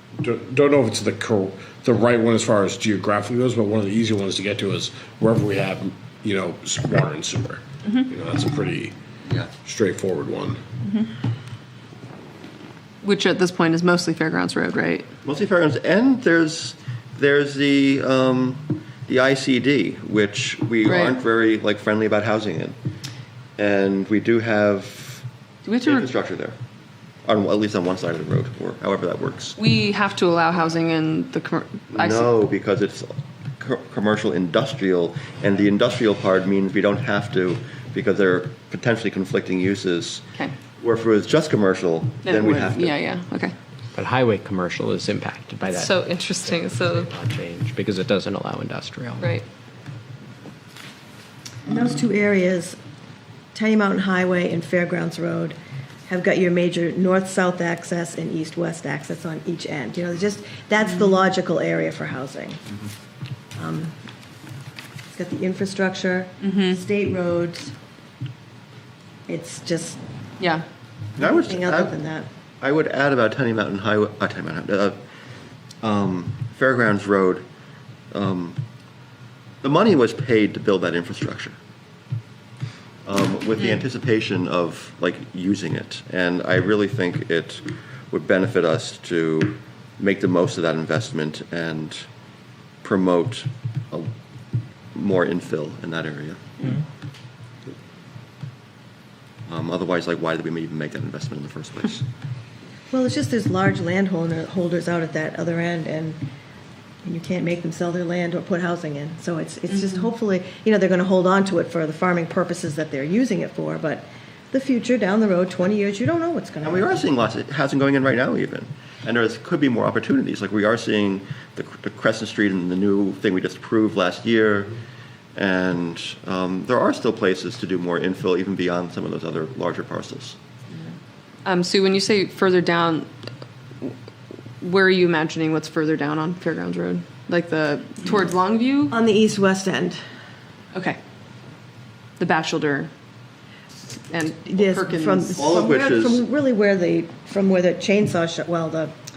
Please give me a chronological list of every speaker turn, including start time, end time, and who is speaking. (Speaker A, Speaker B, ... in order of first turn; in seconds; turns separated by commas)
Speaker A: 0.2-8.9, Speaker A: 9.6-10.6, Speaker B: 13.0-15.1, Speaker C: 15.2-22.8, Speaker B: 20.8-21.1, Speaker C: 23.6-25.2, Speaker B: 25.6-26.1, Speaker C: 25.8-26.6, Speaker C: 27.2-29.6, Speaker B: 29.6-32.3, Speaker C: 31.9-40.2, Speaker C: 40.8-42.9, Speaker B: 42.2-43.5, Speaker D: 43.9-49.3, Speaker B: 45.7-47.1, Speaker B: 49.2-49.4, Speaker E: 51.6-52.8, Speaker E: 53.5-55.5, Speaker E: 56.1-62.6, Speaker E: 63.5-63.9, Speaker E: 65.1-67.7, Speaker B: 66.4-66.8, Speaker E: 69.3-70.0, Speaker C: 71.2-72.0, Speaker E: 71.2-72.3, Speaker C: 72.6-75.0, Speaker C: 75.8-77.4, Speaker C: 78.1-78.6, Speaker C: 79.6-81.5, Speaker C: 83.0-92.0, Speaker C: 92.8-94.1, Speaker C: 94.9-96.6, Speaker C: 99.5-102.0, Speaker E: 102.9-106.2, Speaker E: 107.0-117.0, Speaker C: 116.6-124.7, Speaker C: 125.3-130.4, Speaker B: 131.4-133.1, Speaker B: 134.6-138.9, Speaker E: 138.9-140.0, Speaker B: 140.7-141.0, Speaker B: 142.2-142.9, Speaker B: 144.1-145.4, Speaker E: 144.5-148.9, Speaker C: 145.3-146.2